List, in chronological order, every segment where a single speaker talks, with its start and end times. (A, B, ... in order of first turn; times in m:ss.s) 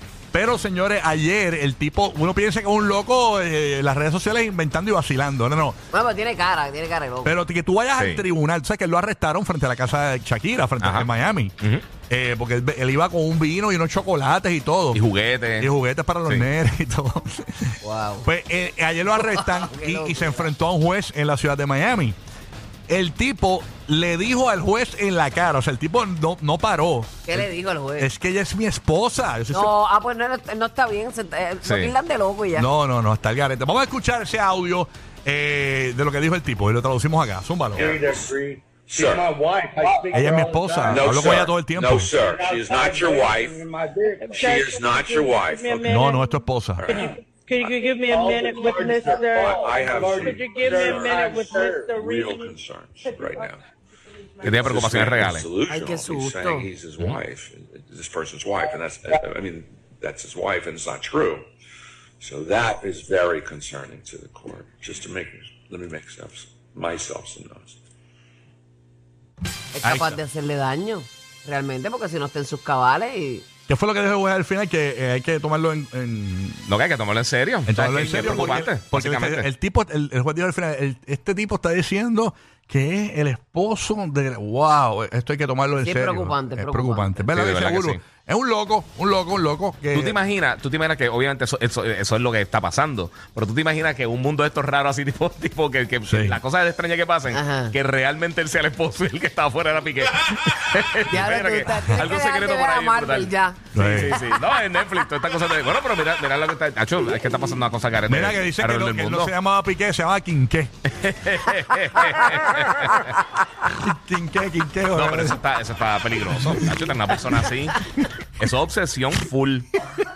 0:00.3-0:05.8 A
0:05.9-0:07.4 B
0:07.2-0:11.6 A
0:08.0-0:08.2 C
0:10.8-0:11.1 C
0:12.1-0:15.0 A
0:14.9-0:15.7 C
0:15.6-0:22.2 A
0:17.8-0:18.3 B
0:19.2-0:20.5 B
0:22.9-0:29.7 A
0:27.3-0:28.1 B
0:29.5-0:32.7 B
0:31.6-0:31.9 C
0:32.5-0:37.9 A
0:37.8-0:39.3 D
0:37.8-0:41.5 E
0:40.1-0:42.2 A
0:40.9-0:43.6 D
0:42.1-0:44.6 E
0:44.2-0:53.5 F
0:44.3-0:45.9 D
0:45.8-0:47.0 A
0:46.9-0:47.7 D
0:48.1-0:52.0 E
0:49.2-0:53.6 D
0:54.4-0:55.5 C
0:54.4-1:01.5 D
0:55.7-0:56.7 B
1:02.2-1:07.8 D
1:09.8-1:13.5 B
1:09.8-1:10.2 A
1:13.7-1:16.6 A
1:16.7-1:19.5 C
1:17.7-1:30.2 A
1:25.8-1:27.3 B
1:27.3-1:28.0 C
1:29.9-1:49.3 C
1:36.1-1:36.4 A
1:37.3-1:37.7 B
1:41.1-1:44.4 B
1:43.7-1:44.2 A
1:48.1-1:50.7 A
1:51.0-1:53.2 C
1:53.6-1:55.4 A
1:54.9-1:57.8 C
1:56.4-1:56.7 A
1:58.4-1:59.7 C